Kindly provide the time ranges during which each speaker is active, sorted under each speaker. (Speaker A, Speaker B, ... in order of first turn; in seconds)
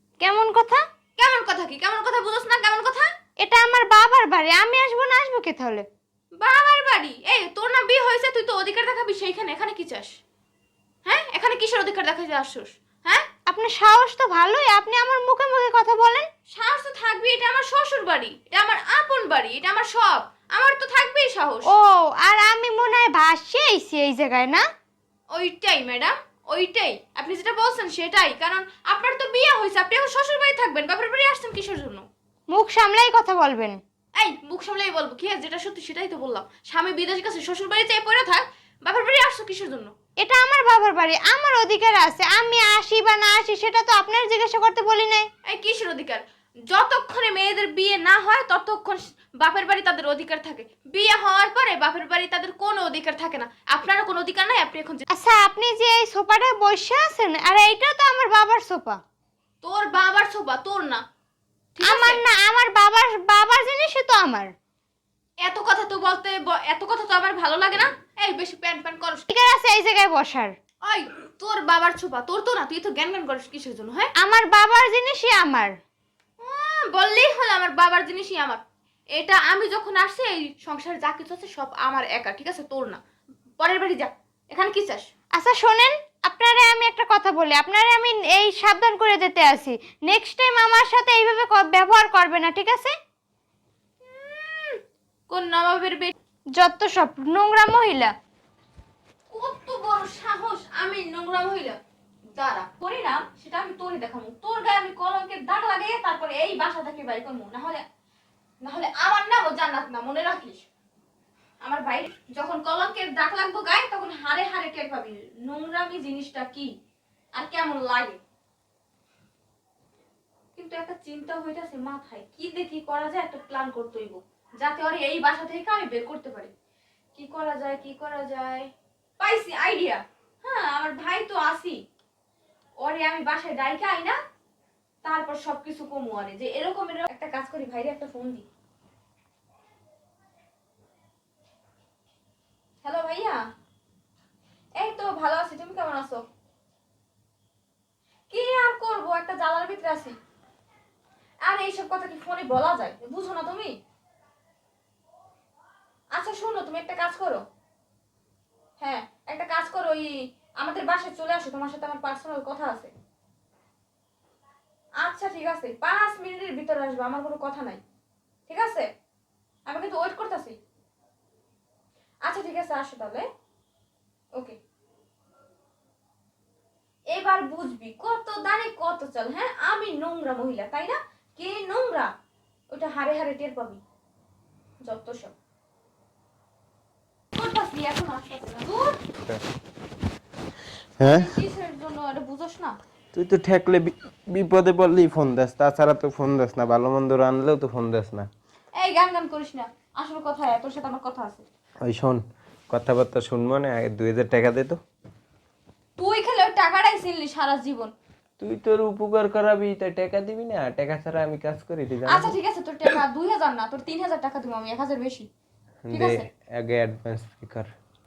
Speaker A: 0.2-0.8, 3.4-5.8, 13.5-16.3, 21.6-24.6, 32.5-33.8, 40.2-45.3, 55.1-59.0, 61.9-64.5, 69.3-70.5, 74.2-75.7, 85.3-92.9, 96.6-98.1
Speaker B: 1.2-3.1, 6.4-10.2, 11.0-13.2, 16.5-21.7, 25.3-32.0, 34.1-39.9, 45.4-55.0, 59.6-61.0, 61.8-62.2, 65.4-69.3, 70.8-74.1, 76.4-78.6, 79.2-83.0, 83.6-85.1, 94.0-96.1, 99.3-101.8, 102.4-107.8, 108.6-110.7, 111.6-116.7, 117.3-118.2, 120.5-126.5, 127.1-128.7, 129.2-131.8, 132.8-134.2, 135.0-138.4, 142.8-143.4, 144.8-146.2, 148.3-150.1, 151.4-153.7, 156.1-157.4, 158.8-162.9, 165.0-167.8, 168.5-168.9, 169.7-170.6, 172.2-173.2, 177.1-182.1, 182.7-183.8, 184.8-185.3, 187.3-189.0, 191.0-192.8, 198.8-201.4, 206.0-207.9, 212.1-215.3, 215.9-216.3
Speaker C: 191.0-191.3, 193.1-198.3, 201.8-204.8, 208.4-212.3, 215.8-217.7